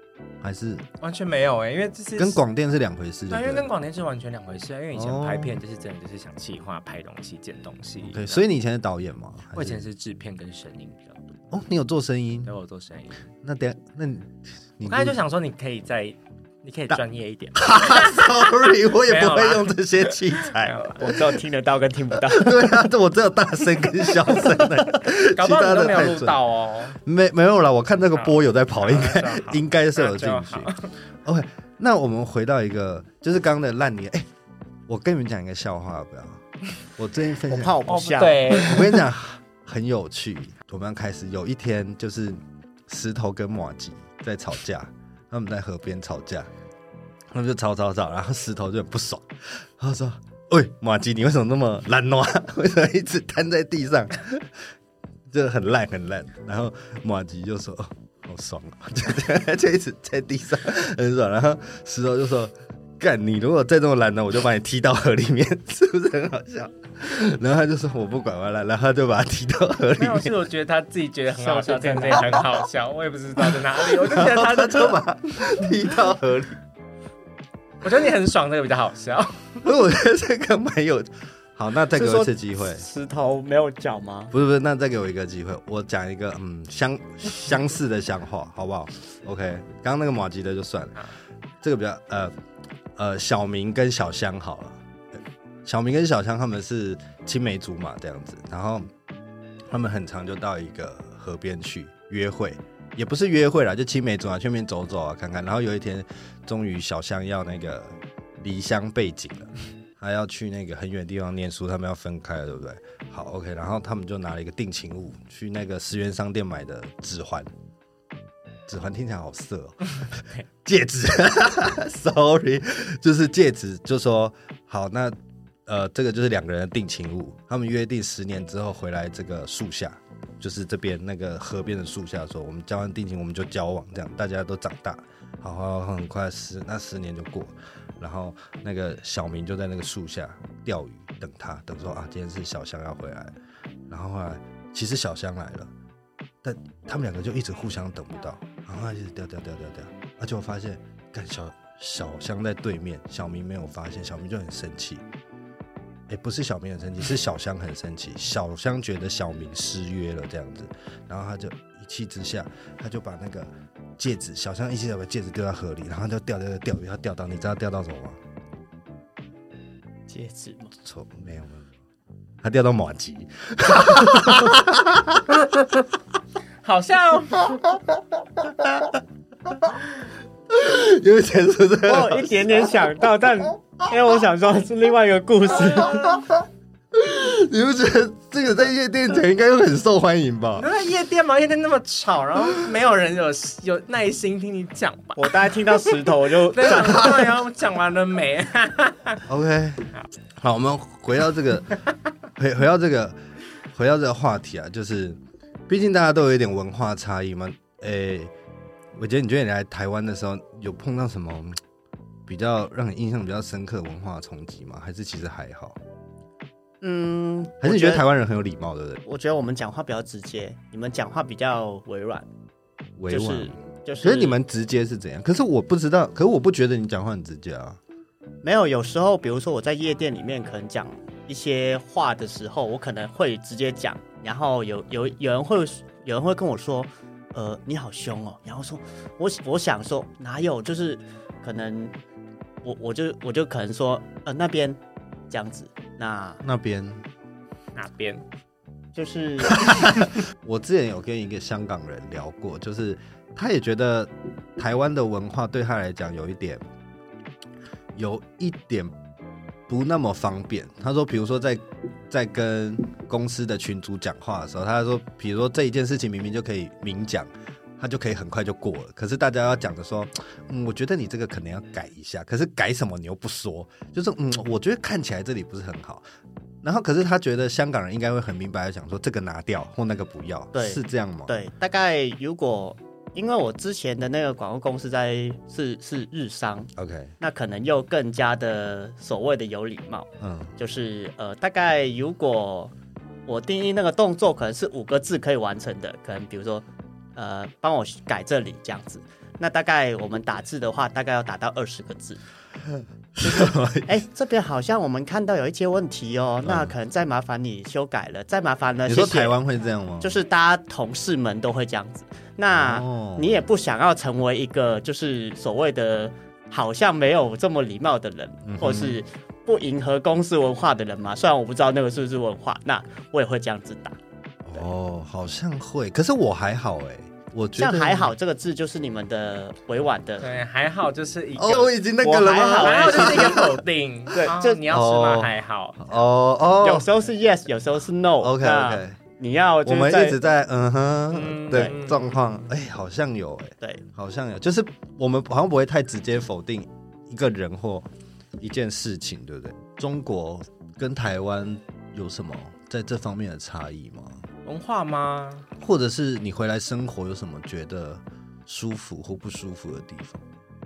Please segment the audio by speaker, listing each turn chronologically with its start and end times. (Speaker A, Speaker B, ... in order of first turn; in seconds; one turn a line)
Speaker A: 0.4-0.8
Speaker B: 1.0-2.4
Speaker A: 2.2-3.7
Speaker B: 3.3-8.4
Speaker A: 4.9-5.6
Speaker A: 8.0-9.8
Speaker B: 9.5-11.2
Speaker A: 11.5-12.5
Speaker B: 12.5-13.2
Speaker A: 13.4-15.2
Speaker B: 14.8-21.2
Speaker A: 17.6-20.8
Speaker C: 21.0-22.8
Speaker A: 22.2-26.4
Speaker B: 24.2-27.0
Speaker A: 26.9-30.7
Speaker B: 28.1-30.9
Speaker A: 31.2-34.2
Speaker A: 34.9-36.4
Speaker A: 37.0-37.8
Speaker C: 37.4-38.7
Speaker B: 37.9-39.0
Speaker A: 38.5-46.5
Speaker A: 47.3-54.7
Speaker A: 55.3-70.4
Speaker B: 70.0-75.5
Speaker C: 71.4-72.5
Speaker A: 73.6-76.6
Speaker B: 77.8-79.7
Speaker A: 79.6-82.8
Speaker C: 81.9-84.3
Speaker A: 84.3-91.1
Speaker A: 91.6-92.3
Speaker A: 93.0-98.9
Speaker A: 99.7-117.5
Speaker A: 118.7-125.1
Speaker A: 125.7-143.3
Speaker A: 143.9-145.7
Speaker A: 146.4-155.0
Speaker A: 156.1-168.2
Speaker C: 170.1-170.7
Speaker A: 170.8-171.7
Speaker A: 172.4-175.6
Speaker B: 176.6-177.8
Speaker A: 178.6-178.9
Speaker A: 180.5-182.7
Speaker C: 181.8-186.2
Speaker A: 186.9-190.7
Speaker B: 190.6-199.2
Speaker C: 195.2-197.3
Speaker A: 199.2-201.8
Speaker A: 202.4-203.2
Speaker A: 203.7-208.3
Speaker A: 208.9-211.6
Speaker A: 212.3-215.8
Speaker C: 216.8-218.0
Speaker A: 217.6-219.0
Speaker C: 219.0-222.2
Speaker A: 223.0-227.8
Speaker C: 223.1-224.4
Speaker C: 228.4-241.9
Speaker C: 242.6-246.4
Speaker A: 246.4-247.0
Speaker B: 247.7-248.2
Speaker C: 248.9-249.8
Speaker A: 249.5-256.6
Speaker A: 257.9-258.9
Speaker A: 259.7-276.0
Speaker A: 276.6-281.3
Speaker C: 280.5-292.7
Speaker A: 286.8-287.1
Speaker A: 290.2-290.5
Speaker C: 293.3-296.6
Speaker C: 297.1-302.2
Speaker A: 303.1-304.0
Speaker C: 303.2-309.3
Speaker A: 306.4-306.7
Speaker A: 308.9-310.1
Speaker C: 310.0-324.0
Speaker A: 312.5-313.3
Speaker A: 318.4-319.0
Speaker A: 324.4-328.1
Speaker C: 327.6-330.3
Speaker B: 330.2-331.8
Speaker A: 331.4-333.6
Speaker C: 332.0-333.4
Speaker B: 332.5-336.0
Speaker C: 334.1-334.6
Speaker A: 334.7-336.9
Speaker C: 336.6-340.2
Speaker A: 338.2-339.0
Speaker A: 339.6-347.9
Speaker B: 341.1-342.1
Speaker A: 348.4-354.2
Speaker B: 354.4-355.5
Speaker A: 355.6-360.2